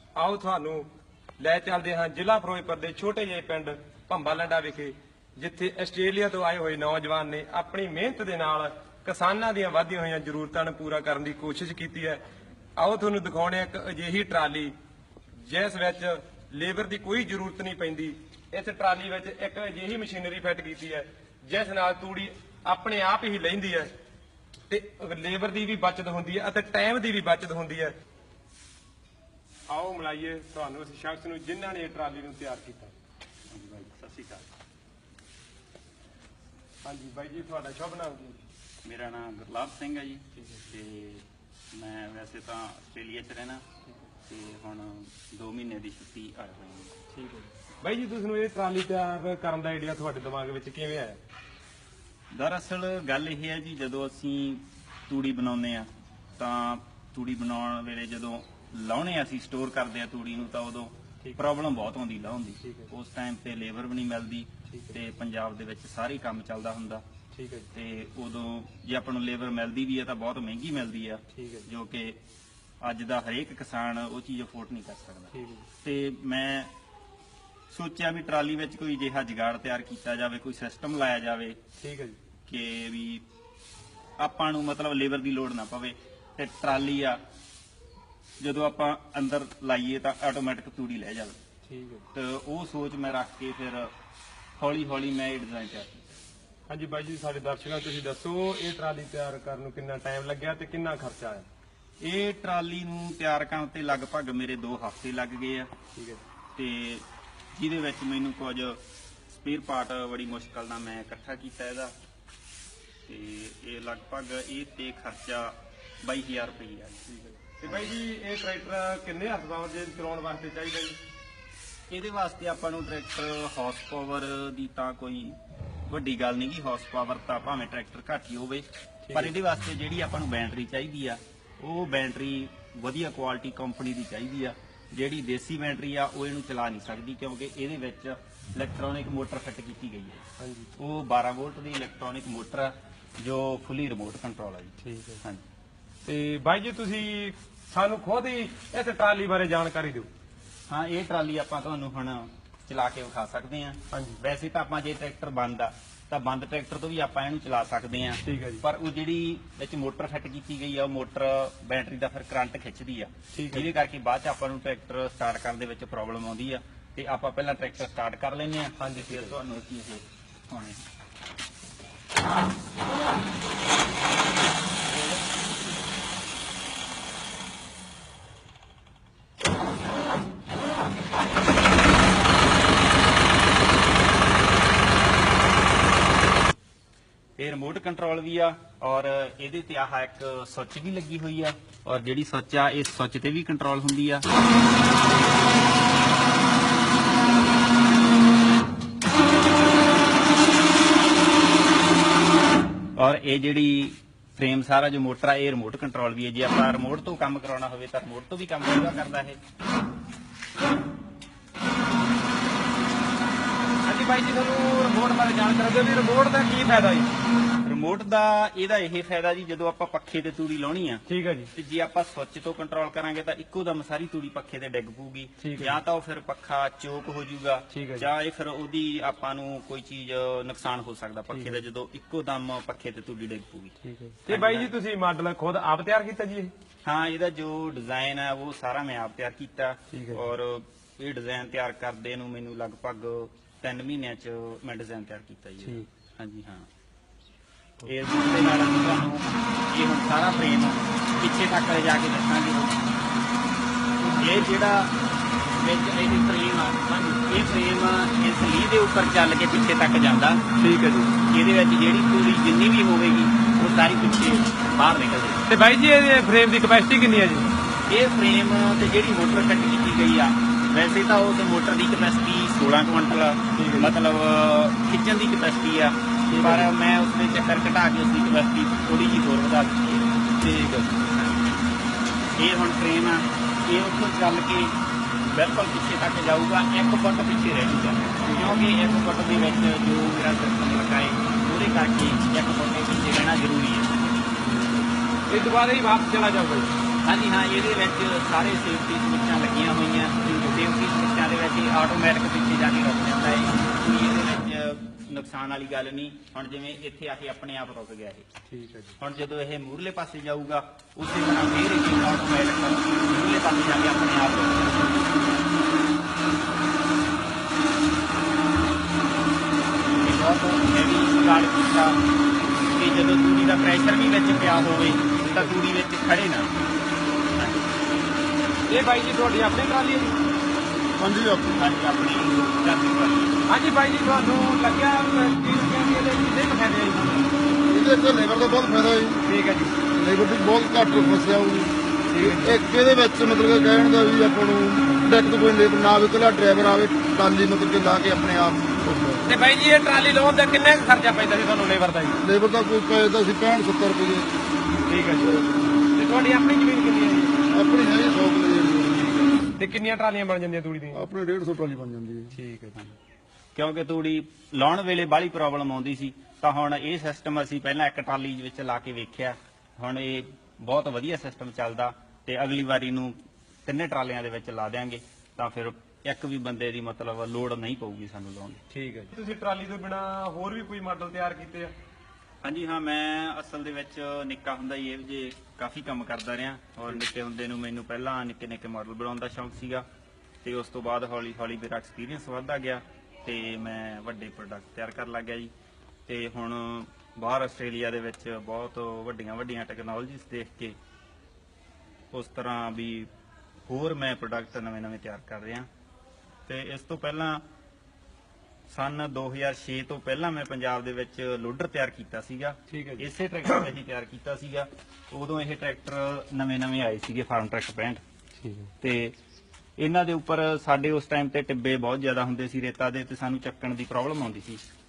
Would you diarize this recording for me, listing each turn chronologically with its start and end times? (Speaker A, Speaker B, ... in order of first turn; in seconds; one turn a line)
Speaker A: 0.2-0.9
Speaker A: 1.4-12.2
Speaker A: 12.8-14.7
Speaker A: 15.3-23.9
Speaker A: 24.7-27.9
Speaker A: 29.7-32.9
Speaker B: 33.5-34.5
Speaker A: 36.9-38.4
Speaker B: 38.8-43.6
Speaker A: 40.4-40.7
Speaker B: 44.3-46.9
Speaker A: 47.1-51.2
Speaker B: 52.3-67.0
Speaker A: 62.6-62.9
Speaker A: 64.7-65.0
Speaker A: 67.3-67.7
Speaker B: 67.7-72.2
Speaker A: 71.3-71.7
Speaker B: 72.8-76.7
Speaker A: 75.3-75.7
Speaker B: 77.7-81.6
Speaker A: 81.8-82.2
Speaker B: 82.5-83.2
Speaker B: 84.2-87.2
Speaker B: 88.4-91.4
Speaker A: 91.7-92.1
Speaker B: 92.1-93.9
Speaker B: 94.6-96.0
Speaker A: 96.7-101.5
Speaker B: 102.0-105.7
Speaker A: 106.0-106.2
Speaker B: 106.6-111.9
Speaker B: 113.1-117.9
Speaker A: 117.6-121.0
Speaker B: 121.9-125.4
Speaker B: 125.9-140.2
Speaker A: 129.1-129.3
Speaker A: 140.4-140.7
Speaker B: 140.8-145.4
Speaker A: 144.8-145.2
Speaker A: 146.1-150.1
Speaker B: 150.7-170.8
Speaker A: 153.9-154.2
Speaker A: 158.2-158.6
Speaker A: 163.3-163.7
Speaker A: 168.8-169.3
Speaker B: 187.4-194.3
Speaker B: 203.0-209.4
Speaker A: 213.8-217.1
Speaker B: 217.6-221.0
Speaker A: 221.1-221.5
Speaker B: 221.6-233.8
Speaker A: 225.4-225.8
Speaker A: 227.7-228.1
Speaker A: 231.3-231.6
Speaker A: 233.8-236.5
Speaker B: 234.3-234.7
Speaker B: 236.8-246.7
Speaker A: 239.9-240.2
Speaker B: 247.9-252.8
Speaker A: 254.0-254.5
Speaker B: 254.2-255.0
Speaker B: 255.6-260.4
Speaker A: 260.6-261.2
Speaker B: 261.3-265.4
Speaker A: 265.5-267.5
Speaker B: 267.9-280.1
Speaker A: 273.6-273.9
Speaker A: 276.3-276.7
Speaker A: 280.4-281.1
Speaker B: 281.1-281.5
Speaker B: 282.4-284.8
Speaker B: 285.3-294.0
Speaker A: 288.2-288.6
Speaker A: 294.4-296.7
Speaker B: 297.0-308.3
Speaker A: 308.5-309.0
Speaker B: 309.0-315.0
Speaker B: 320.0-322.0
Speaker B: 322.7-326.5
Speaker A: 325.2-325.5
Speaker B: 327.4-327.7
Speaker A: 328.7-330.2
Speaker C: 331.0-331.5
Speaker B: 331.4-333.4
Speaker A: 333.5-337.3
Speaker C: 337.7-339.2
Speaker A: 339.2-339.8
Speaker C: 339.9-349.2
Speaker A: 342.1-342.6
Speaker A: 349.2-352.2
Speaker C: 352.2-354.4
Speaker A: 354.9-357.4
Speaker C: 357.5-359.4
Speaker A: 359.6-361.1
Speaker C: 361.0-362.3
Speaker A: 362.3-362.9
Speaker B: 363.6-373.1
Speaker B: 373.7-378.6
Speaker A: 378.7-381.7
Speaker B: 382.4-389.9
Speaker B: 390.4-395.5
Speaker B: 396.1-400.8
Speaker B: 402.1-403.1
Speaker B: 403.7-405.7
Speaker B: 406.5-407.4
Speaker B: 408.7-418.0
Speaker A: 412.7-413.1
Speaker A: 418.4-418.7
Speaker B: 418.8-419.2
Speaker B: 419.8-424.6